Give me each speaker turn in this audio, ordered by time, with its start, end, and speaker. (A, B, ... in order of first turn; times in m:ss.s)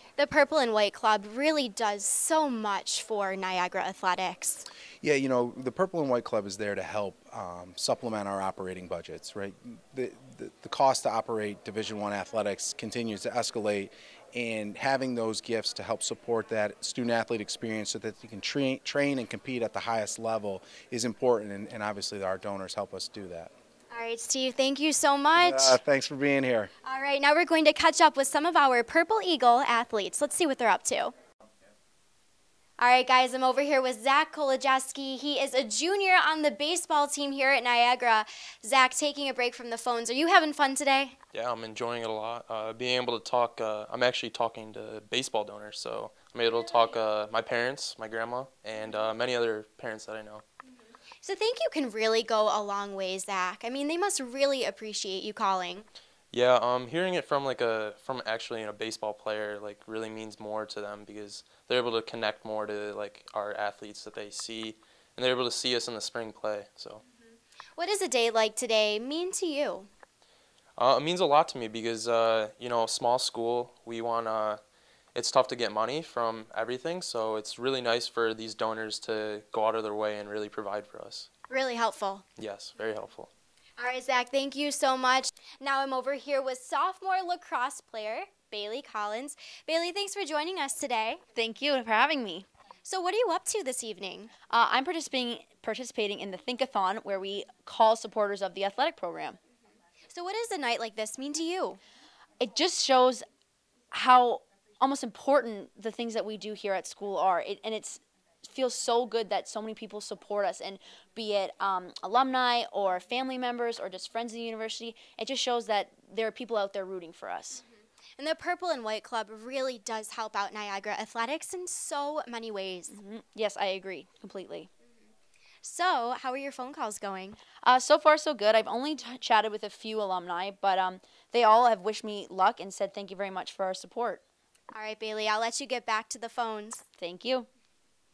0:00.2-0:04.6 A
0:05.0-0:23.5 B
0:23.9-0:25.8 A
0:25.4-0:26.7 B
0:26.8-0:31.1 A
0:32.8-0:41.1 A
0:41.3-0:50.4 C
0:51.2-0:55.8 A
0:56.3-1:07.0 C
1:07.8-1:09.9 A
1:10.8-1:14.6 C
1:15.1-1:21.3 C
1:21.5-1:22.2 A
1:22.4-1:23.3 C
1:23.8-1:31.2 A
1:31.4-1:32.5 D
1:32.8-1:34.3 A
1:34.5-1:39.4 D
1:40.1-1:41.8 A
1:42.4-1:43.2 D
1:43.9-1:57.6 D
1:58.2-2:03.0 A
2:02.9-2:04.7 D
2:05.6-2:07.4 A
2:07.6-2:14.2 D
2:14.7-2:16.8 A
2:17.0-2:17.5 D